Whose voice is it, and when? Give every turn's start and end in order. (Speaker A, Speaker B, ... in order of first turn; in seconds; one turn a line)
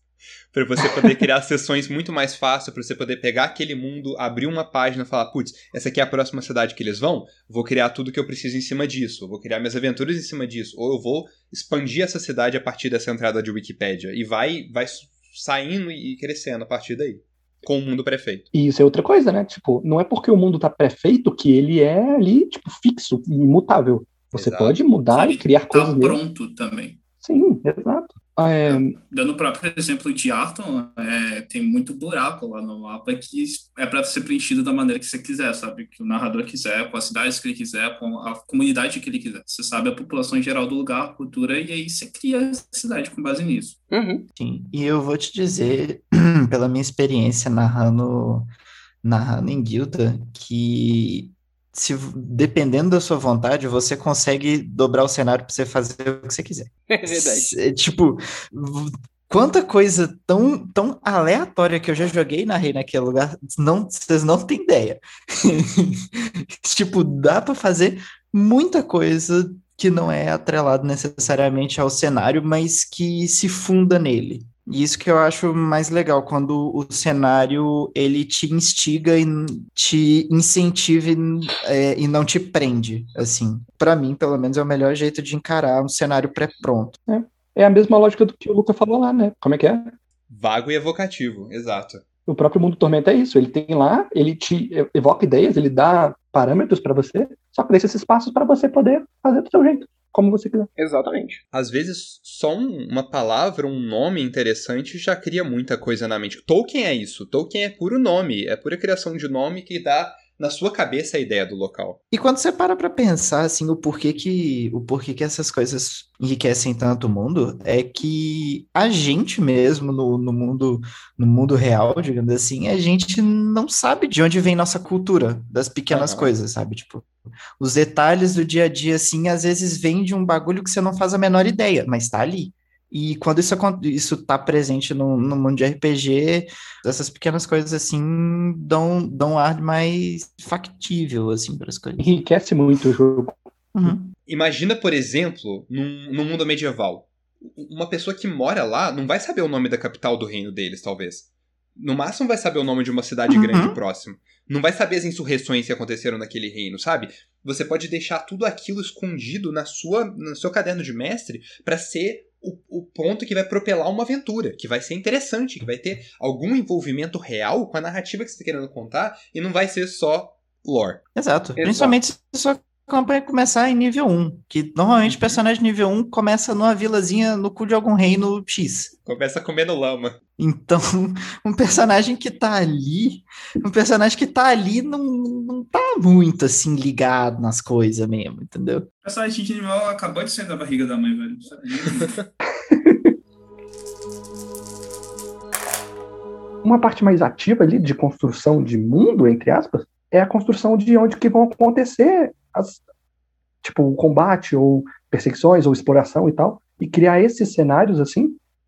Speaker A: 0.5-18.5
Speaker B: 18.5-26.2
Speaker A: 24.3-24.8
Speaker C: 25.1-27.0
Speaker B: 27.2-29.0
Speaker C: 28.7-43.8
Speaker D: 43.9-44.3
Speaker E: 44.4-48.5
Speaker E: 49.0-87.0
Speaker D: 56.9-57.6
Speaker B: 87.1-90.0
Speaker A: 90.3-92.0
Speaker B: 92.3-100.7
Speaker D: 100.8-101.4
Speaker A: 101.5-112.0
Speaker E: 112.1-142.1
Speaker A: 125.9-126.3
Speaker B: 142.0-143.9
Speaker E: 143.8-144.1
Speaker A: 144.3-171.0
Speaker E: 153.3-153.8
Speaker E: 171.2-178.9
Speaker D: 171.6-172.0
Speaker A: 175.1-175.4
Speaker A: 179.1-180.2
Speaker E: 180.4-188.9
Speaker C: 189.0-192.2
Speaker B: 192.7-193.1
Speaker B: 196.6-202.8
Speaker B: 203.6-208.4